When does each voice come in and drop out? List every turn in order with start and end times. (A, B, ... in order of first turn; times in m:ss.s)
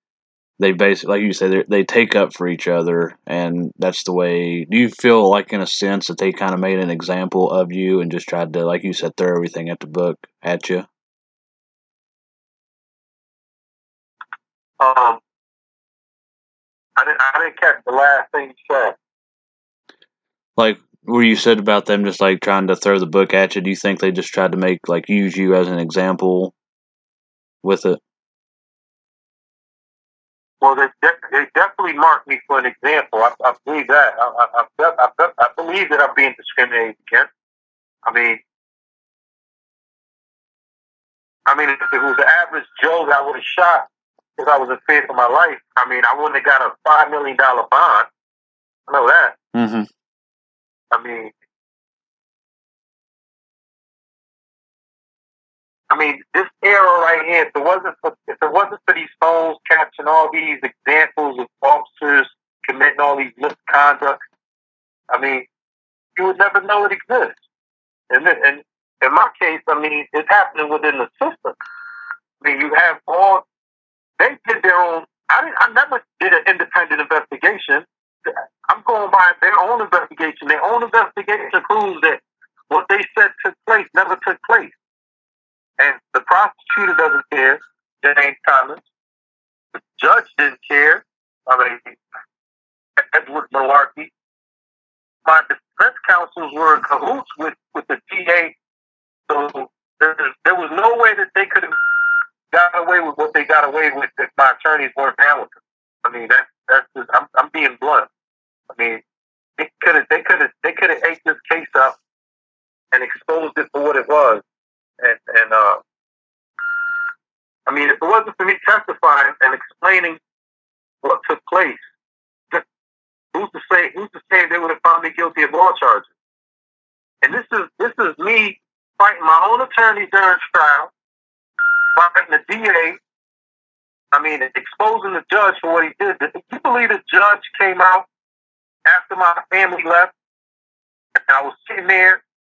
0:00.6-0:10.8 A
0:14.8-0:15.2 B
0:17.0-0:19.0 B
0:20.6-0:26.5 A
0:27.6-0:28.0 A
0:30.6-0:37.3 B
0:38.0-0:38.4 B
0:41.5-0:48.1 B
0:48.9-0:49.4 B
0:49.5-0:49.9 A
0:50.9-0:51.3 B
0:55.9-1:04.2 B
1:05.1-1:05.5 B
1:06.2-1:07.4 B
1:08.1-1:11.6 B
1:12.4-1:13.4 B
1:14.2-1:24.8 B
1:25.8-1:28.8 B
1:29.7-1:32.0 B
1:33.0-1:34.1 B
1:35.2-1:38.6 B
1:39.3-1:41.8 B
1:42.5-1:48.1 B
1:48.7-1:49.0 B
1:49.6-1:52.0 B
1:52.9-1:54.4 B
1:55.0-1:55.8 B
1:57.7-2:00.2 B
2:01.0-2:01.8 B
2:03.3-2:06.1 B
2:07.2-2:10.9 B
2:12.0-2:13.0 B
2:14.1-2:18.1 B
2:18.8-2:20.1 B
2:21.2-2:22.2 B